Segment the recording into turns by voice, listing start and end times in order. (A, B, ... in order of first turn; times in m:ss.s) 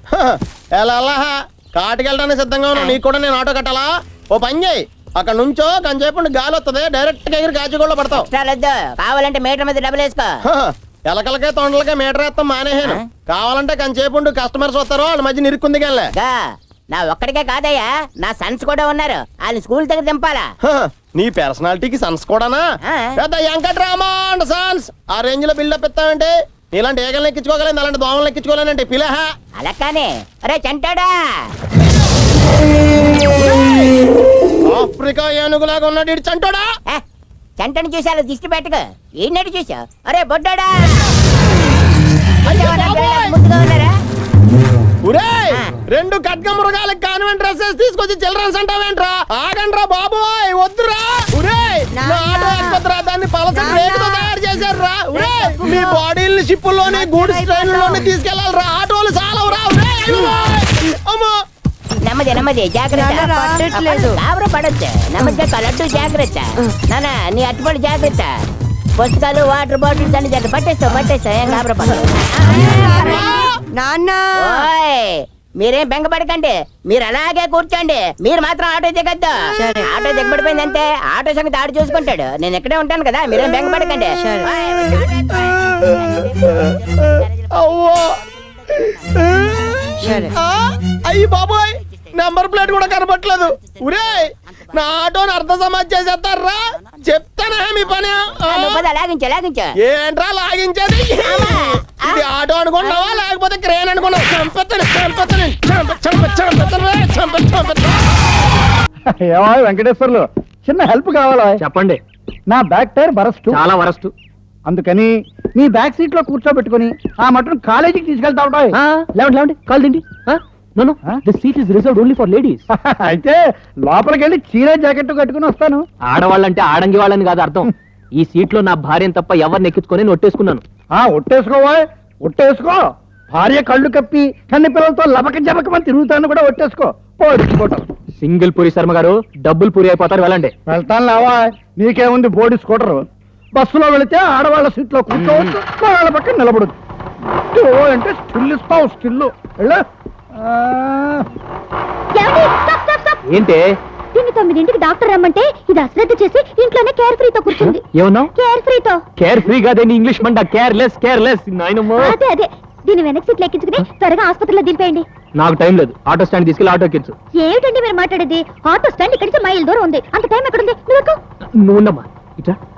0:00.1-0:08.3 A
0:08.2-0:10.3 B
0:10.5-0:16.1 A
0:16.9-0:20.5 B
0:20.6-0:22.6 A
0:23.2-0:29.3 A
0:29.6-0:31.1 B
0:33.3-0:33.9 A
0:34.7-0:36.7 A
0:37.6-0:41.1 B
0:42.5-0:43.4 A
0:42.5-0:43.9 B
0:45.0-1:01.3 A
0:51.9-0:52.8 C
0:53.5-0:54.3 C
0:55.1-0:56.0 C
0:56.9-0:58.0 C
1:02.0-1:08.3 B
1:02.9-1:04.2 C
1:09.0-1:13.5 B
1:12.7-1:14.7 C
1:13.1-1:13.4 A
1:14.4-1:25.5 B
1:19.5-1:19.9 C
1:24.2-1:24.5 C
1:24.9-1:28.1 A
1:28.7-1:38.8 A
1:30.0-1:30.3 C
1:38.5-1:39.7 B
1:39.8-1:48.1 A
1:41.3-1:42.2 B
1:49.1-1:51.6 D
1:51.6-1:52.0 E
1:52.5-1:53.6 D
1:53.5-1:54.1 E
1:54.7-1:58.8 D
1:58.7-2:02.6 E
2:02.7-2:05.8 D
2:06.1-2:10.6 E
2:10.9-2:17.9 D
2:18.2-2:20.5 E
2:20.7-2:26.8 D
2:25.1-2:25.6 E
2:27.5-2:29.8 D
2:30.4-2:31.2 D
2:32.1-2:33.2 F
2:33.3-2:33.8 E
2:34.1-2:37.8 F
2:37.5-2:38.3 E
2:38.3-2:39.0 F
2:39.2-2:42.2 E
2:42.0-2:45.0 F
2:45.4-2:47.2 E
2:47.4-2:51.2 F
2:51.6-2:52.6 E